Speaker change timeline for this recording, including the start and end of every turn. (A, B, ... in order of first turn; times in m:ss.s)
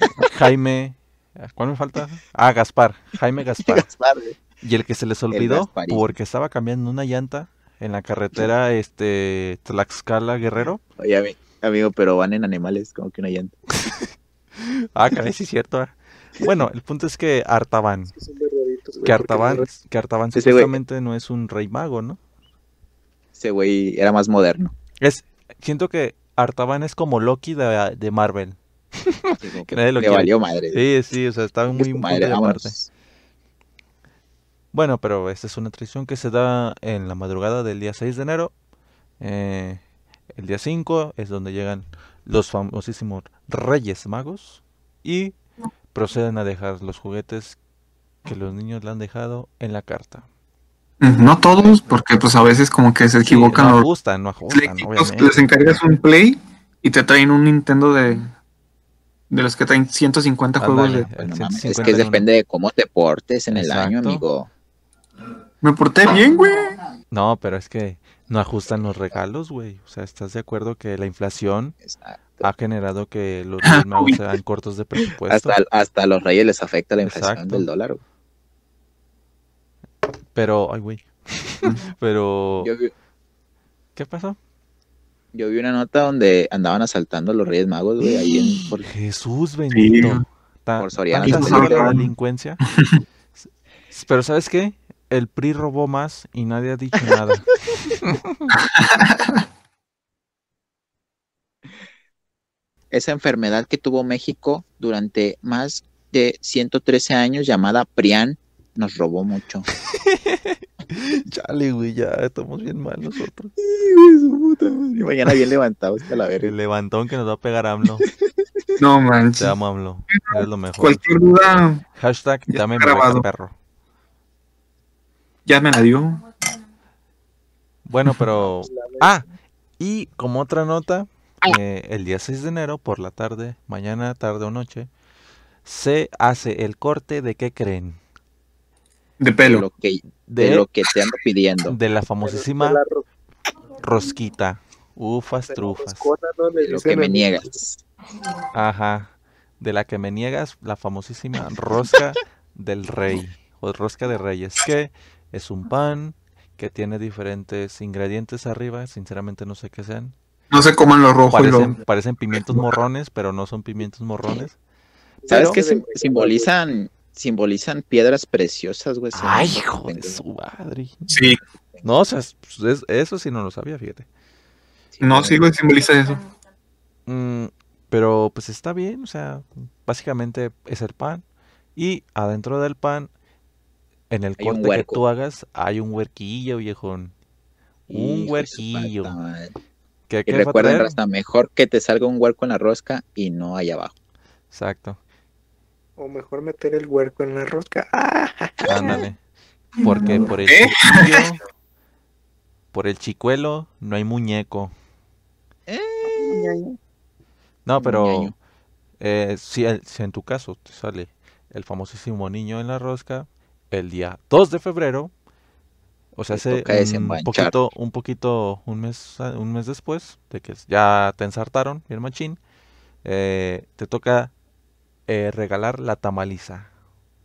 0:00.2-0:03.9 A
0:03.6-0:04.4 B
0:04.6-0:10.8 A
0:05.3-0:06.1 B
0:11.0-0:13.6 B
0:13.8-0:18.1 A
0:18.1-0:19.7 C
0:19.0-0:22.2 A
0:20.3-0:20.8 B
0:23.3-0:24.7 B
0:25.0-0:32.8 A
0:29.4-0:30.8 B
0:31.7-0:32.9 B
0:34.7-0:38.5 A
0:39.2-0:39.8 A
0:40.3-0:45.4 A
0:45.9-0:47.6 A
0:48.2-0:50.3 A
0:51.0-0:53.9 D
0:53.3-0:55.4 A
0:54.5-0:58.3 D
0:59.3-1:01.1 D
1:00.6-1:02.3 A
1:01.1-1:04.5 B
1:03.5-1:04.2 A
1:05.6-1:06.8 D
1:07.1-1:11.8 A
1:11.8-1:12.5 B
1:12.4-1:15.6 A
1:13.6-1:14.2 D
1:15.3-1:18.0 B
1:17.0-1:17.7 A
1:20.4-1:22.7 A
1:22.6-1:22.9 B
1:24.0-1:24.4 A
1:25.3-1:28.9 B
1:28.9-1:32.6 A
1:29.7-1:30.2 D
1:30.8-1:32.0 B
1:31.2-1:32.1 D
1:33.9-1:38.5 A
1:38.6-1:39.2 D
1:42.9-1:49.7 B
1:49.9-1:53.5 A
1:53.6-1:56.5 B
1:56.4-1:58.1 A
1:58.8-1:59.6 D
1:59.4-2:01.0 A
2:00.1-2:01.8 D
2:02.0-2:03.5 A
2:02.5-2:03.3 D
2:05.5-2:06.2 D
2:07.9-2:09.3 A
2:08.6-2:09.1 C
2:09.8-2:14.9 A
2:15.6-2:18.0 A
2:19.2-2:19.7 D
2:19.4-2:21.8 B
2:20.3-2:20.7 A
2:21.7-2:22.8 A
2:22.2-2:23.0 C
2:23.8-2:26.1 A
2:25.4-2:27.6 C
2:26.6-2:27.8 B
2:28.5-2:40.2 A
2:40.5-2:41.8 D
2:41.3-2:44.6 A
2:42.3-2:42.7 D
2:45.2-2:46.5 C
2:45.3-2:45.6 A
2:45.3-2:50.2 B
2:49.1-2:51.3 A
2:51.1-2:51.4 D
2:51.8-2:54.1 A
2:54.9-2:55.5 B
2:55.0-2:56.2 D
2:57.1-3:01.2 A
3:01.8-3:03.1 A
3:04.1-3:07.1 A
3:04.4-3:05.0 B
3:07.9-3:09.2 A
3:07.9-3:09.5 B
3:10.1-3:11.0 A
3:10.3-3:13.9 B
3:14.5-3:15.0 A
3:16.0-3:19.0 C
3:18.6-3:19.2 A
3:19.8-3:21.4 A
3:20.5-3:21.1 D
3:22.7-3:24.7 A
3:25.7-3:26.6 B
3:26.2-3:26.6 C
3:27.6-3:28.3 A
3:27.8-3:28.3 B
3:29.0-3:35.1 A
3:36.2-3:42.4 A
3:36.3-3:37.6 B
3:43.0-3:44.3 A
3:45.1-3:46.7 A